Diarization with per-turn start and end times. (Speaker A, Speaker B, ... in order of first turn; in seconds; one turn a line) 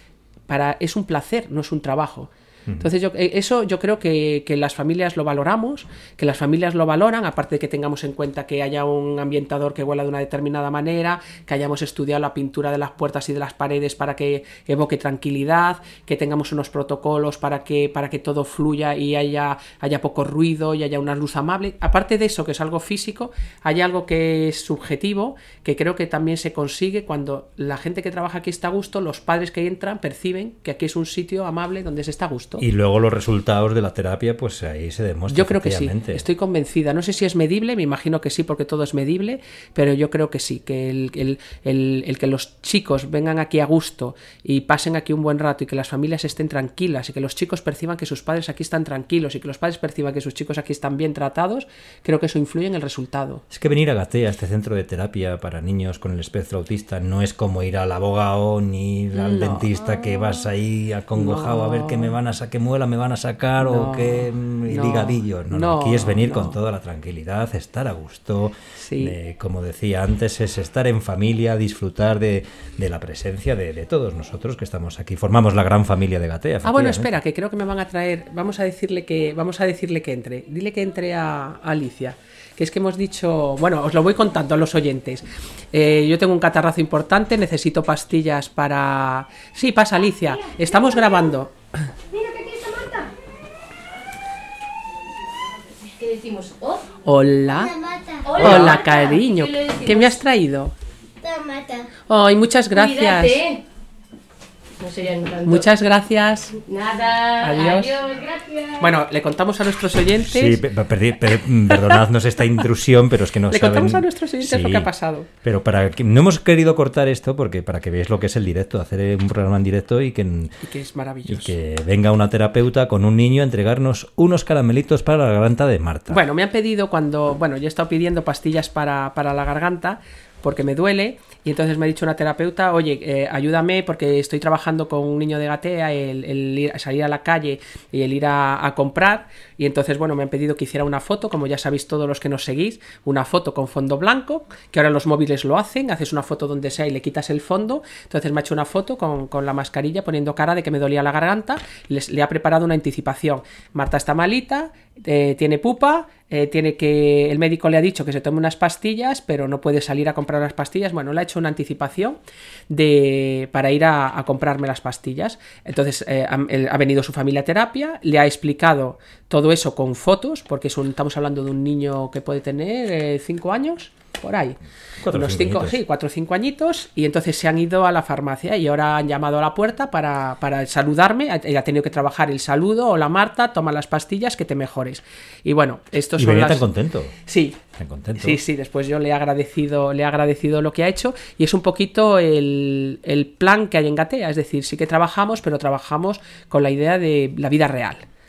Speaker A: 0.5-32.6
Speaker B: 32.6-36.2
Speaker A: 35.3-53.4
Speaker B: 53.5-77.1
Speaker A: 59.1-59.7
Speaker A: 61.1-62.1
Speaker A: 63.6-66.6
Speaker A: 68.8-69.2
Speaker A: 76.6-91.5
Speaker C: 90.6-91.2
Speaker C: 92.1-93.1
Speaker C: 95.8-96.9
Speaker A: 97.0-100.7
Speaker C: 98.2-100.2
Speaker B: 98.4-98.7
Speaker C: 101.2-101.8
Speaker A: 102.0-103.4
Speaker C: 102.7-103.6
Speaker C: 104.8-105.7
Speaker A: 105.4-106.6
Speaker C: 106.7-108.9
Speaker A: 107.4-108.0
Speaker A: 108.8-110.6
Speaker B: 110.2-114.9
Speaker A: 111.7-112.0
Speaker A: 113.5-115.3
Speaker B: 115.4-120.6
Speaker A: 120.6-121.6
Speaker B: 121.2-126.2
Speaker A: 126.1-174.6
Speaker B: 175.0-175.8
Speaker A: 175.1-186.7
Speaker B: 186.1-187.2
Speaker A: 187.2-187.6
Speaker B: 187.8-188.4
Speaker A: 188.2-198.1